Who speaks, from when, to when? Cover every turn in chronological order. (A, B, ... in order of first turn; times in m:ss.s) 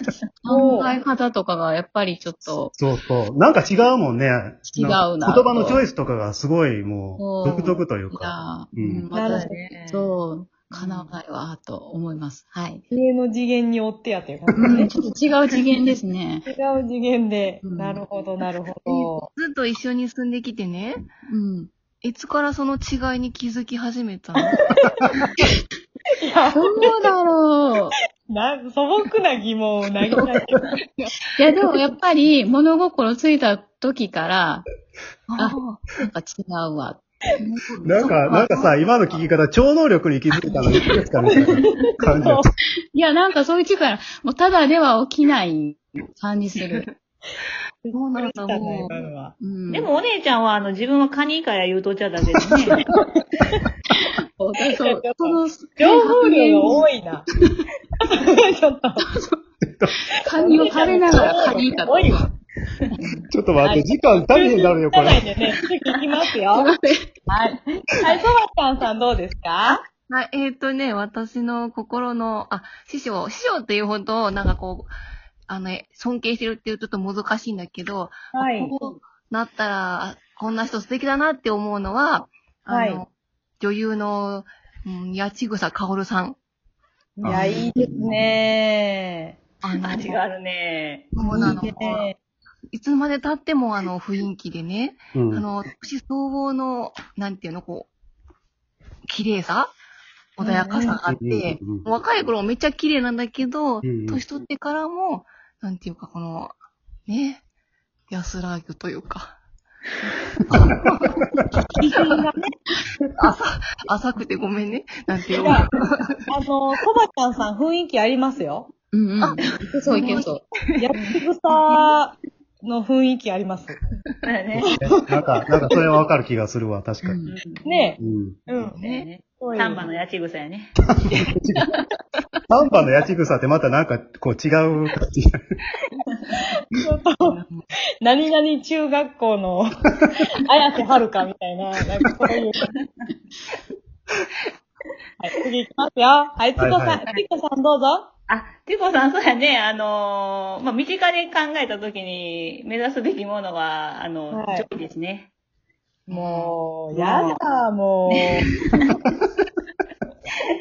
0:00.4-0:02.7 A
0:00.5-0:01.0 B
0:02.8-0:09.1 C
0:04.7-0:05.8 A
0:07.2-0:12.8 A
0:09.1-0:09.5 B
0:09.2-0:10.1 D
0:10.7-0:11.1 D
0:12.9-0:14.9 B
0:14.5-0:16.4 A
0:16.4-0:19.3 B
0:17.6-0:18.0 A
0:19.3-0:21.0 E
0:21.3-0:21.7 A
0:22.0-0:24.7 E
0:24.5-0:24.9 B
0:26.2-0:27.1 B
0:26.5-0:27.9 A
0:28.3-0:30.6 B
0:31.4-0:34.7 A
0:35.3-0:35.9 E
0:35.4-0:37.4 A
0:37.6-0:39.2 E
0:37.8-0:42.5 C
0:41.4-0:42.4 B
0:42.9-0:46.9 A
0:46.5-0:46.9 E
0:47.8-0:49.4 B
0:47.9-0:49.1 E
0:49.4-0:49.9 A
0:49.7-0:52.8 D
0:52.8-0:53.6 B
0:54.0-0:56.8 A
0:54.7-0:57.3 B
0:58.0-0:59.0 B
0:59.0-0:59.4 A
0:59.6-1:00.0 C
1:00.1-1:02.3 A
1:00.3-1:02.2 B
1:03.3-1:05.2 C
1:03.7-1:06.7 B
1:06.5-1:07.1 A
1:07.3-1:09.8 B
1:10.1-1:14.9 E
1:15.5-1:26.4 E
1:18.3-1:18.7 B
1:22.7-1:23.0 B
1:27.2-1:27.7 C
1:27.2-1:29.4 B
1:27.4-1:27.8 E
1:29.6-1:30.2 E
1:29.8-1:31.1 D
1:31.1-1:32.0 E
1:31.2-1:32.2 B
1:32.7-1:37.9 E
1:35.1-1:35.4 C
1:39.0-1:39.7 E
1:40.4-1:46.5 E
1:40.4-1:41.0 B
1:41.1-1:41.9 C
1:43.8-1:44.2 C
1:47.1-1:47.4 E
1:48.1-1:49.4 E
1:50.5-1:51.2 E
1:50.5-1:51.1 C
1:51.8-1:52.5 B
1:53.2-1:56.2 E
1:55.3-1:55.7 B
1:56.3-1:58.7 B
1:58.9-2:00.4 A
1:59.2-2:00.2 E
2:00.8-2:03.8 B
2:04.2-2:04.8 D
2:04.6-2:07.2 C
2:07.0-2:07.3 A
2:07.2-2:08.0 D
2:07.6-2:08.8 B
2:08.0-2:08.4 C
2:08.7-2:10.7 D
2:08.8-2:09.0 E
2:09.4-2:09.9 B
2:11.3-2:11.7 C
2:12.5-2:15.4 C
2:16.4-2:17.4 B
2:18.0-2:22.7 B
2:25.2-2:28.1 B
2:26.6-2:27.0 C
2:28.3-2:35.3 D
2:34.3-2:34.7 B
2:36.1-2:38.5 B
2:36.1-2:37.4 D
2:38.2-2:39.0 D